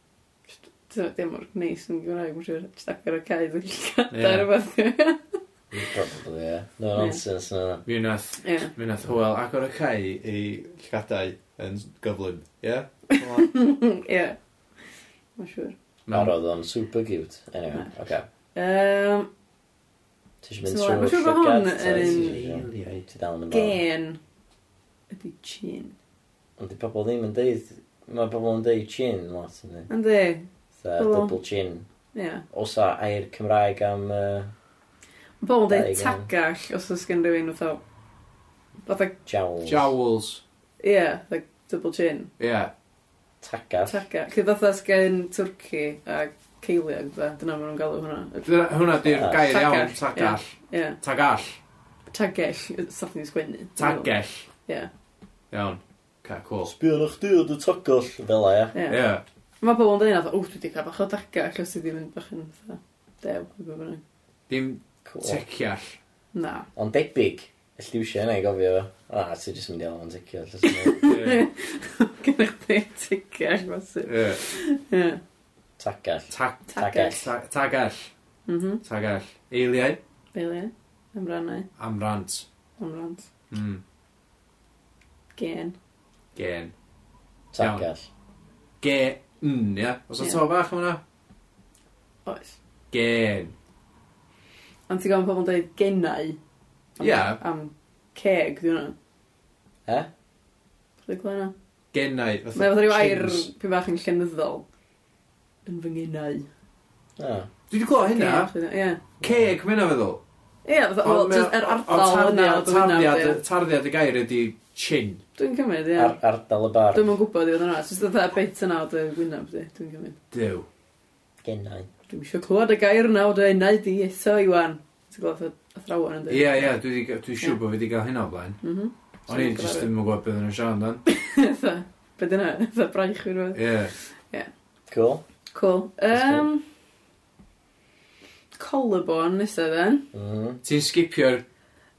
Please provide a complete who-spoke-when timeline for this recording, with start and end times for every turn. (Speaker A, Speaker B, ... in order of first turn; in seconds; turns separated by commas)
Speaker A: 0.5-5.3, Speaker B: 4.1-4.5, Speaker C: 5.7-7.8, Speaker B: 7.8-13.5, Speaker A: 8.4-8.7, Speaker A: 13.1-14.4, Speaker A: 15.4-15.7, Speaker B: 16.1-16.3, Speaker C: 16.1-18.2, Speaker A: 18.5-19.3, Speaker C: 20.4-23.8, Speaker A: 20.6-22.4, Speaker B: 21.9-23.1, Speaker A: 23.5-24.2, Speaker A: 25.1-25.9, Speaker C: 26.6-29.9, Speaker A: 29.9-31.4, Speaker C: 30.8-31.9, Speaker A: 32.1-32.4, Speaker C: 32.5-34.5, Speaker A: 35.4-37.8, Speaker C: 35.7-36.3, Speaker A: 38.9-39.1, Speaker C: 39.2-39.9, Speaker B: 39.6-40.4, Speaker A: 40.8-42.3, Speaker B: 42.4-42.7, Speaker C: 43.4-44.0, Speaker A: 43.9-48.5, Speaker B: 48.4-51.6, Speaker C: 49.0-49.5, Speaker A: 49.4-51.0, Speaker A: 52.1-54.1, Speaker B: 53.8-54.5, Speaker A: 54.6-54.9, Speaker B: 55.5-56.7, Speaker C: 56.6-58.7, Speaker A: 58.7-59.0, Speaker B: 58.9-59.2, Speaker A: 59.6-64.0, Speaker B: 64.5-66.0, Speaker C: 65.0-65.4, Speaker A: 66.3-66.7, Speaker C: 66.8-71.1, Speaker A: 70.7-75.2, Speaker B: 71.1-71.5, Speaker B: 74.0-74.4, Speaker C: 75.8-77.3, Speaker B: 76.3-78.1, Speaker A: 76.7-77.2, Speaker A: 78.5-78.8, Speaker B: 78.8-80.0, Speaker A: 80.3-81.7, Speaker B: 81.8-82.5, Speaker A: 82.8-83.3, Speaker B: 83.5-83.8, Speaker A: 85.3-85.7, Speaker B: 86.3-86.7, Speaker C: 87.5-88.1, Speaker B: 87.6-87.8, Speaker B: 88.8-91.0, Speaker A: 92.2-92.5, Speaker B: 92.9-93.5, Speaker A: 94.9-96.4, Speaker B: 97.0-97.4, Speaker A: 97.0-98.9, Speaker A: 101.0-101.5, Speaker B: 101.9-103.5, Speaker A: 102.5-104.6, Speaker A: 105.7-106.5, Speaker C: 107.2-107.5, Speaker B: 107.7-108.5, Speaker A: 108.0-109.0, Speaker B: 109.2-110.2, Speaker A: 110.6-113.4, Speaker B: 111.0-115.2, Speaker A: 115.4-116.2, Speaker C: 116.0-117.1, Speaker A: 116.9-120.2, Speaker B: 120.3-120.7, Speaker C: 121.4-121.9, Speaker A: 122.1-126.7, Speaker B: 126.3-128.6, Speaker A: 128.6-129.9, Speaker B: 129.3-131.0, Speaker A: 131.1-134.5, Speaker B: 133.5-133.9, Speaker C: 134.9-135.2, Speaker A: 135.5-136.6, Speaker C: 136.1-136.5, Speaker A: 138.6-140.1, Speaker C: 140.1-140.6, Speaker B: 140.6-141.4